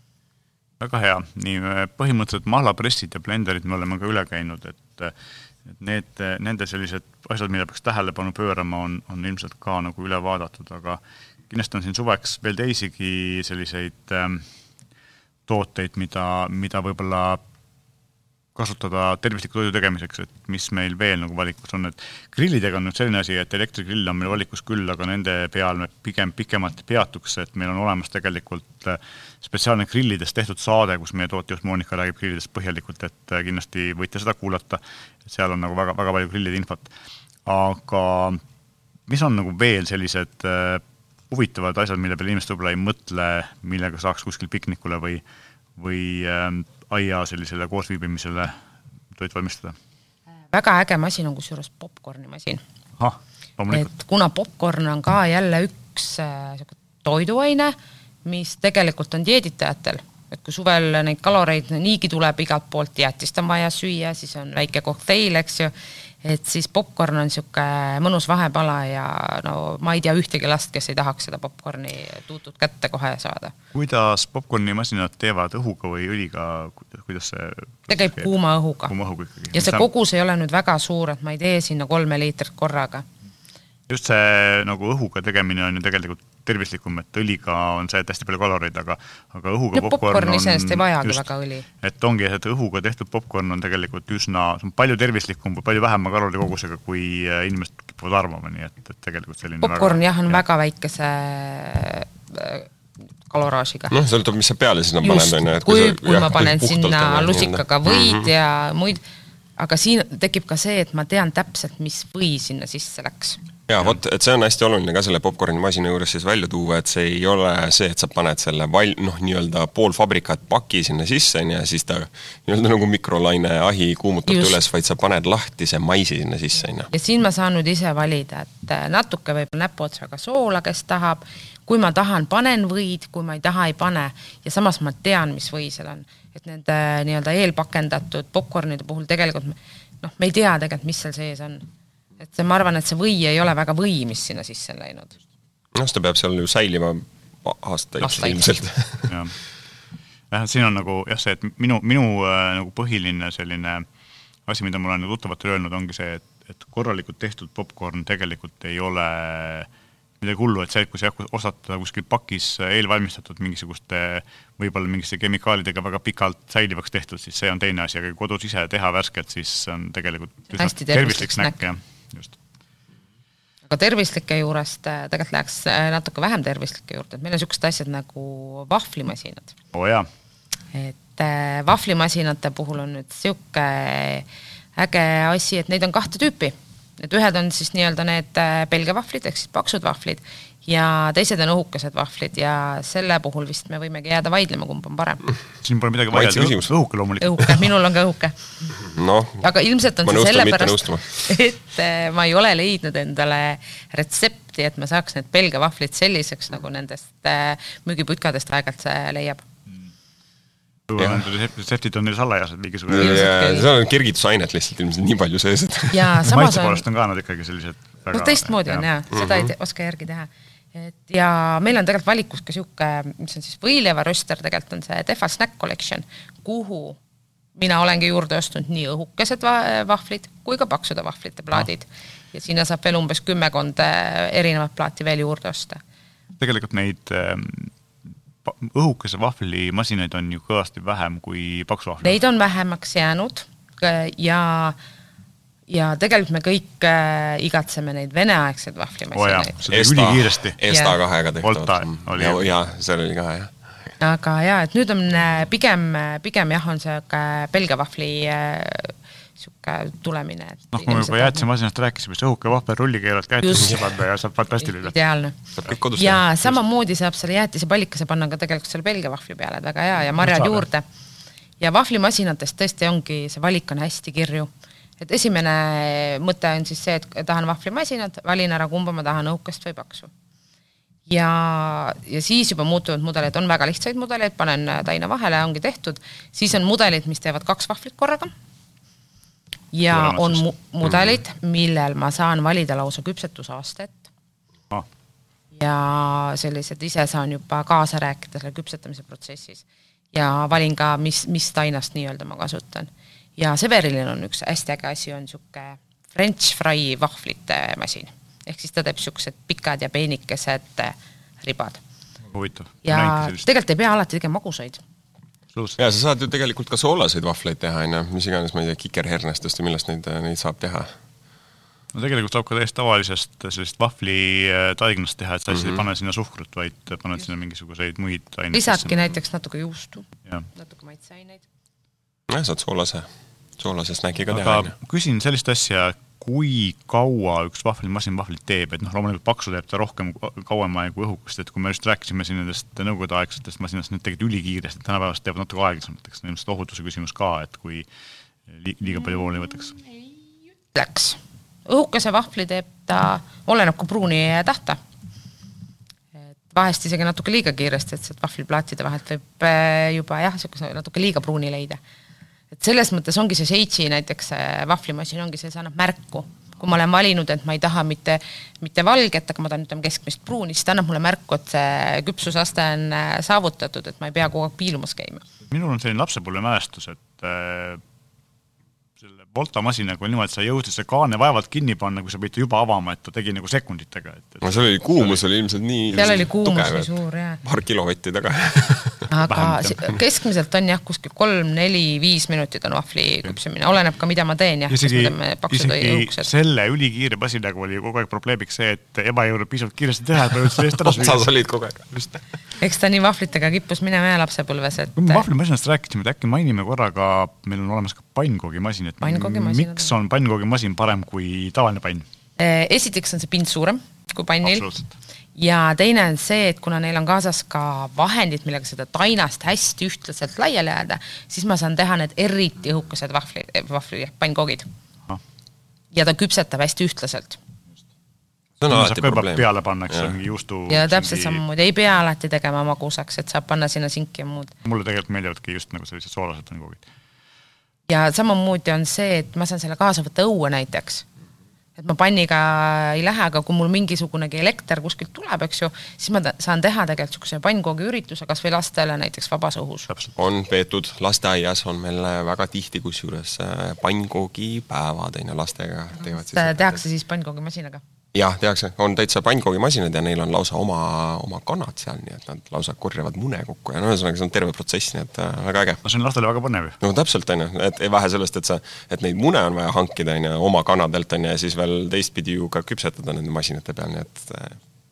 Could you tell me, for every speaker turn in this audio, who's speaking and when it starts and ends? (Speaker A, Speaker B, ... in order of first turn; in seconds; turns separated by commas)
Speaker A: 0.8-5.1, Speaker A: 5.7-14.4, Speaker A: 15.5-17.4, Speaker A: 18.5-36.9, Speaker A: 37.5-38.4, Speaker A: 39.1-45.2, Speaker A: 45.8-48.6, Speaker A: 49.1-49.8, Speaker B: 50.5-52.6, Speaker A: 53.0-53.9, Speaker B: 53.7-73.5, Speaker A: 73.7-78.3, Speaker B: 77.9-78.9, Speaker A: 78.9-79.9, Speaker B: 79.5-83.0, Speaker A: 83.9-91.2, Speaker B: 89.7-91.7, Speaker A: 91.8-100.4, Speaker B: 99.6-102.7, Speaker B: 103.3-104.0, Speaker C: 103.9-108.3, Speaker B: 105.0-109.0, Speaker B: 109.6-113.4, Speaker C: 113.7-126.9, Speaker B: 124.3-124.6, Speaker B: 126.9-141.7, Speaker B: 142.2-145.1, Speaker C: 145.7-149.1, Speaker B: 148.0-148.6, Speaker A: 149.1-149.3, Speaker A: 150.3-153.8, Speaker A: 154.5-159.7, Speaker A: 160.2-172.4, Speaker B: 170.5-171.5, Speaker B: 173.7-179.5, Speaker A: 179.7-180.1, Speaker B: 180.7-195.2, Speaker A: 195.6-197.7, Speaker C: 196.1-196.7, Speaker B: 197.2-198.3, Speaker C: 198.7-199.4, Speaker B: 199.4-209.4, Speaker C: 200.0-201.4, Speaker A: 210.9-213.3, Speaker C: 212.9-216.3, Speaker B: 212.9-213.7, Speaker B: 215.9-216.8, Speaker A: 216.2-218.8, Speaker B: 218.1-227.0, Speaker C: 219.1-219.5, Speaker B: 227.6-235.8, Speaker A: 236.4-237.7, Speaker A: 238.4-242.2, Speaker B: 242.0-244.8, Speaker B: 245.7-249.6, Speaker A: 249.1-250.6, Speaker C: 249.7-253.5, Speaker B: 250.7-251.0, Speaker A: 251.4-252.4, Speaker B: 254.0-261.4, Speaker A: 260.7-264.9, Speaker B: 263.4-263.9, Speaker B: 264.6-265.4, Speaker C: 265.6-266.2, Speaker B: 265.9-270.8, Speaker A: 270.2-270.6, Speaker B: 271.6-280.1, Speaker B: 281.1-288.3, Speaker B: 289.7-294.1, Speaker A: 289.9-290.4, Speaker B: 295.5-311.8, Speaker A: 312.3-313.4, Speaker B: 312.8-314.8, Speaker C: 315.8-320.9, Speaker A: 321.9-329.1, Speaker C: 325.5-325.8, Speaker B: 328.5-331.4, Speaker C: 332.3-333.1, Speaker C: 333.6-334.7, Speaker A: 334.3-347.9, Speaker A: 348.5-349.8, Speaker B: 350.7-354.8, Speaker B: 356.5-361.8, Speaker B: 362.5-375.2, Speaker A: 375.5-377.8, Speaker A: 379.0-385.0, Speaker C: 384.4-386.9, Speaker B: 385.9-387.4, Speaker C: 387.4-389.1, Speaker B: 389.1-396.3, Speaker A: 389.2-390.0, Speaker A: 394.7-401.3, Speaker C: 400.8-402.1, Speaker B: 402.6-405.2, Speaker A: 405.0-412.0, Speaker B: 409.0-409.9, Speaker B: 412.4-414.6, Speaker A: 414.4-414.9, Speaker B: 415.4-424.7, Speaker B: 425.9-427.4, Speaker C: 428.6-430.1, Speaker A: 428.7-431.4, Speaker B: 430.7-434.5, Speaker A: 434.6-436.8, Speaker B: 437.9-441.0, Speaker B: 441.8-449.9, Speaker C: 450.1-456.8, Speaker B: 456.3-457.8, Speaker C: 458.1-465.8, Speaker A: 465.8-466.8, Speaker C: 466.8-474.6